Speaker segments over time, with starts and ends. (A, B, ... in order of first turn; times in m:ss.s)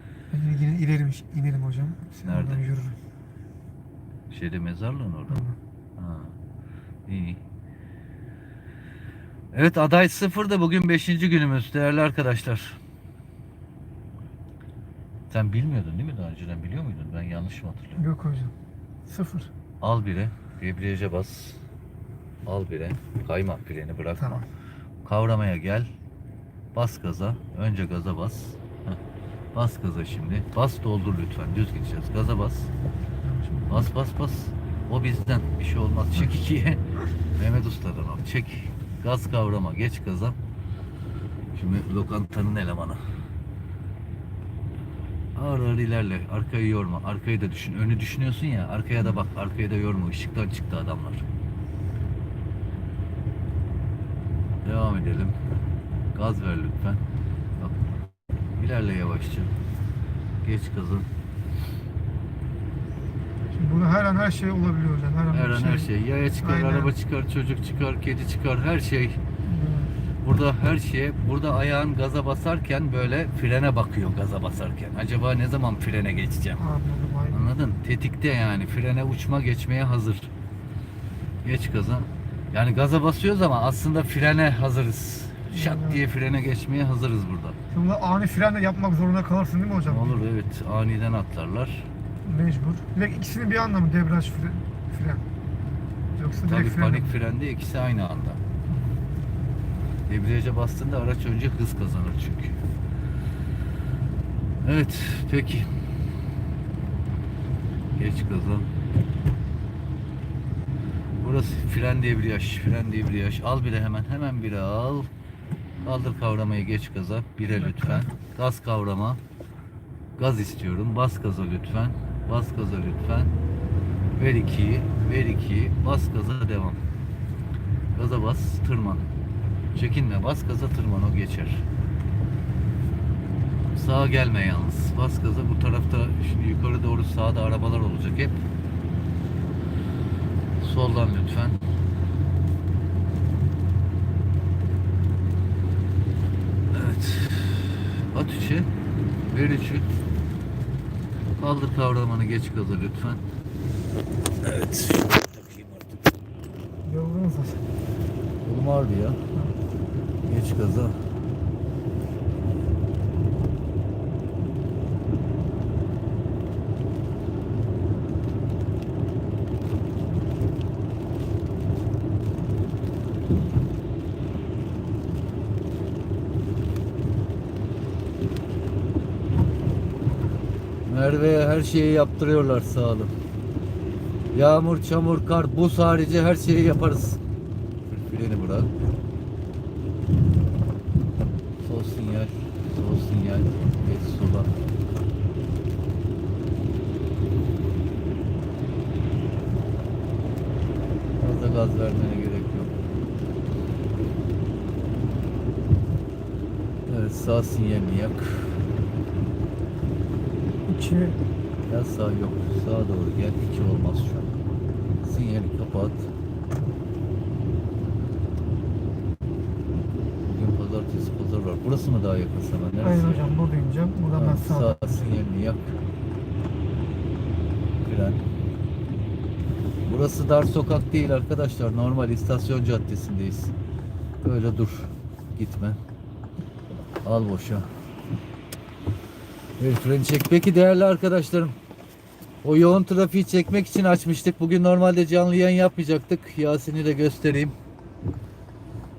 0:00.3-0:03.0 A
0:02.2-0:02.6 B
0:04.3-0:05.4 B
0:05.3-0:05.6 A
0:06.0-0:06.4 B
0:07.1-0:07.4 B
0:09.5-0:12.8 B
0:15.3-0:18.0 B
0:18.0-0:18.5 A
0:19.1-0:19.5 A
0:19.8-0:21.6 B
0:22.4-0:24.4 B
0:24.2-0:24.4 A
0:25.0-0:25.9 B
0:26.7-0:29.0 B
0:29.5-0:32.7 B
0:33.2-0:33.8 A
0:33.7-0:36.8 B
0:37.4-0:40.4 B
0:41.5-0:43.0 B
0:45.4-0:51.2 B
0:54.6-0:55.4 B
0:56.1-0:57.0 B
0:57.6-0:57.9 B
0:58.6-0:59.5 B
1:00.4-1:01.1 B
1:03.5-1:06.9 A
1:05.3-1:09.2 B
1:09.4-1:09.9 A
1:10.2-1:16.6 B
1:16.6-1:17.5 A
1:17.3-1:20.3 B
1:21.4-1:27.6 B
1:25.5-1:26.0 A
1:27.7-1:30.2 A
1:29.8-1:31.9 B
1:32.2-1:35.2 A
1:36.2-1:37.2 A
1:36.5-1:38.4 B
1:38.7-1:39.0 A
1:40.1-1:42.6 B
1:44.6-1:45.7 B
1:48.0-1:48.7 B
1:51.2-1:55.1 B
1:55.8-1:59.2 B
1:57.6-1:58.1 A
2:00.2-2:03.3 B
2:04.2-2:06.8 B
2:07.9-2:09.1 B
2:09.7-2:11.6 B
2:13.7-2:18.3 B
2:20.6-2:21.6 B
2:26.7-2:28.7 B
2:29.3-2:29.9 B
2:31.4-2:33.2 B
2:34.4-2:36.0 B
2:36.8-2:37.6 A
2:38.4-2:39.2 B
2:40.2-2:41.0 B
3:00.9-3:03.1 B
3:04.3-3:07.2 B
3:07.9-3:08.7 B
3:11.6-3:14.6 B
3:21.2-3:22.7 B
3:26.9-3:28.6 B
3:30.7-3:31.2 A
3:31.7-3:34.4 B
3:35.0-3:36.1 B
3:40.2-3:43.2 B
3:42.8-3:45.1 A
3:44.1-3:45.8 B
3:47.8-3:48.2 B
3:49.8-3:53.5 B
3:54.2-3:55.8 B
3:57.0-3:57.7 B
3:59.6-4:01.6 B
4:02.4-4:07.5 B